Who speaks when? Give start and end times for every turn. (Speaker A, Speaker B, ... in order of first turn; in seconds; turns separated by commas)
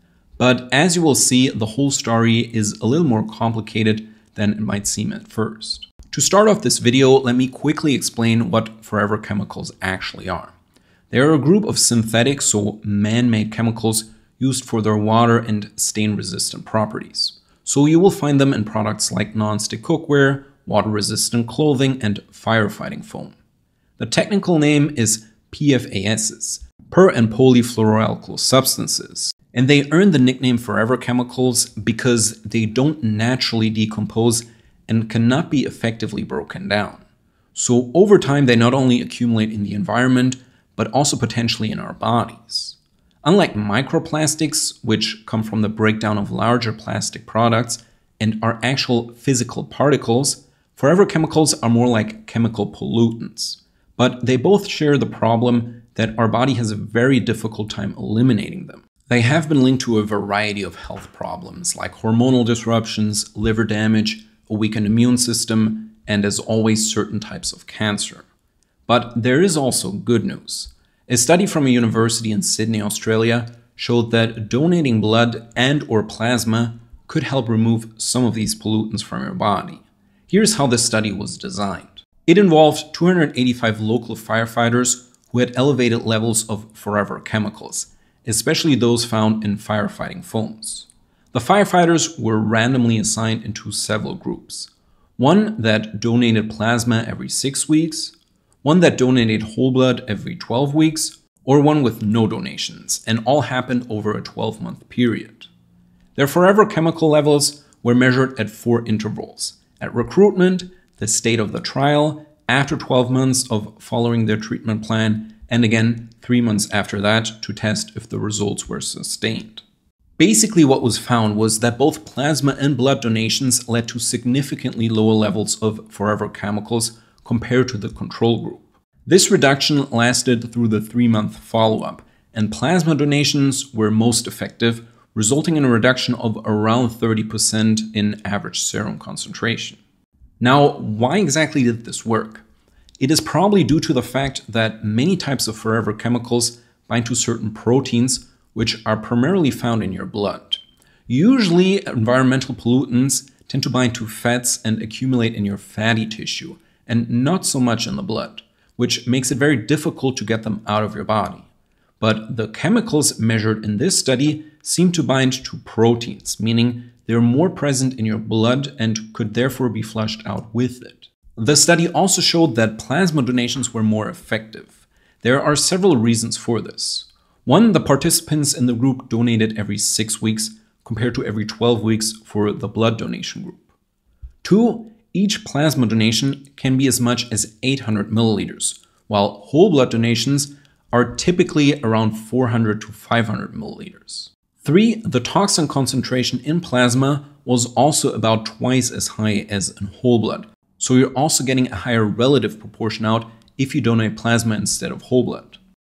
Speaker A: 0.4-10.5, Speaker A: 11.1-23.4, Speaker A: 24.0-37.0, Speaker A: 37.5-68.3, Speaker A: 68.9-105.5, Speaker A: 106.2-119.6, Speaker A: 120.2-139.8, Speaker A: 140.4-142.4, Speaker A: 143.0-161.5, Speaker A: 162.0-183.7, Speaker A: 184.4-205.6